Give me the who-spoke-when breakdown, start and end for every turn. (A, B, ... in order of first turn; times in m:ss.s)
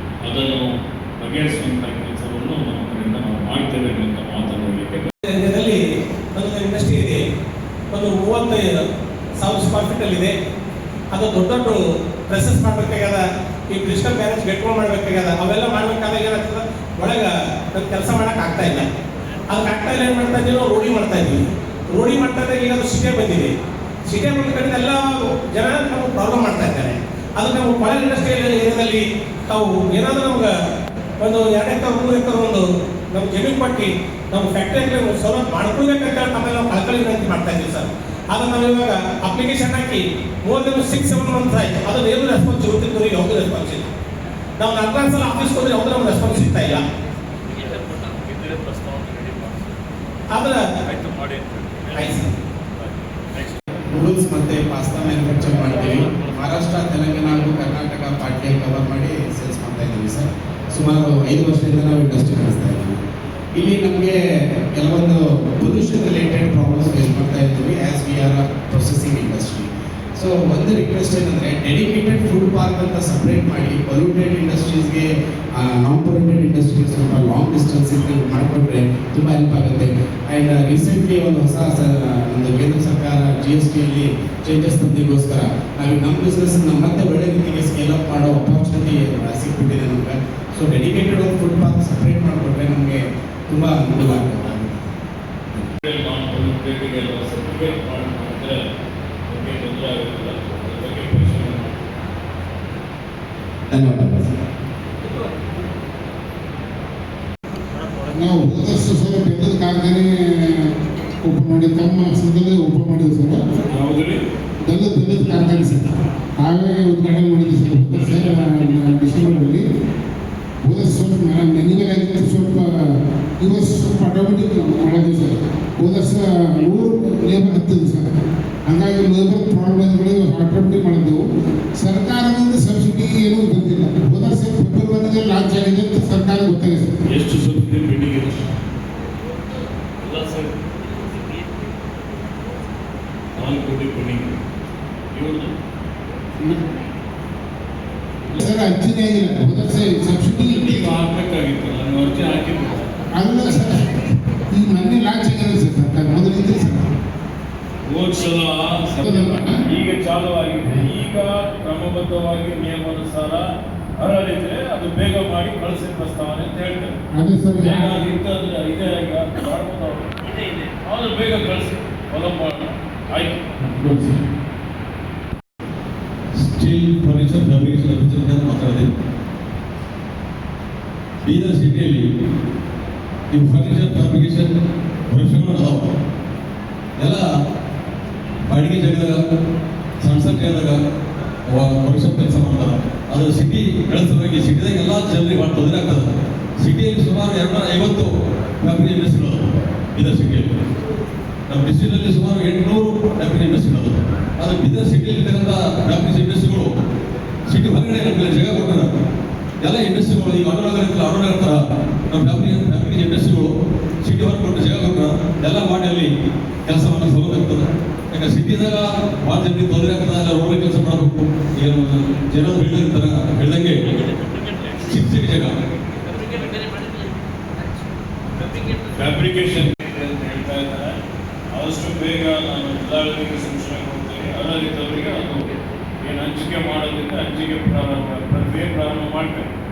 0:00.2-0:05.1 A
0:05.2-0:05.8 B
0:06.3-0:07.2 B
0:07.9-0:08.8 B
0:09.4-0:10.3 B
0:11.1-0:18.9 B
0:19.5-0:23.5 B
0:24.1-0:30.5 B
0:31.2-0:43.9 B
0:44.6-0:46.8 B
0:47.5-0:49.8 A
0:50.3-0:50.6 B
0:50.8-0:53.6 A
0:51.9-0:52.3 B
0:53.9-1:03.0 C
1:03.5-1:04.2 C
1:04.8-1:34.9 C
1:35.8-1:38.6 A
1:39.3-1:41.8 A
1:43.7-1:44.4 C
1:48.1-1:50.7 D
1:51.2-1:53.4 D
1:53.6-1:54.2 A
1:54.6-1:59.6 D
2:00.6-2:08.1 D
2:08.7-2:11.2 D
2:11.8-2:16.9 D
2:17.1-2:18.5 A
2:20.0-2:20.6 A
2:23.4-2:24.3 A
2:25.1-2:25.5 A
2:28.4-2:31.0 D
2:30.6-2:32.8 A
2:33.2-2:33.8 D
2:34.5-2:36.9 D
2:37.9-2:43.4 A
2:39.0-2:39.5 D
2:44.0-2:47.0 A
2:47.1-2:48.0 D
2:47.6-2:54.2 A
2:56.3-2:58.9 E
3:01.2-3:02.1 E
3:03.3-3:04.5 E
3:05.1-3:05.9 E
3:07.0-3:07.3 E
3:08.5-3:09.2 E
3:10.0-3:10.8 E
3:11.5-3:20.7 E
3:21.5-3:26.7 E
3:27.5-3:28.9 E
3:29.6-3:33.5 E
3:34.0-3:36.1 E
3:36.7-3:43.8 E
3:44.8-3:45.6 E
3:46.0-3:46.9 A
3:48.6-3:51.0 A
3:51.5-3:59.5 A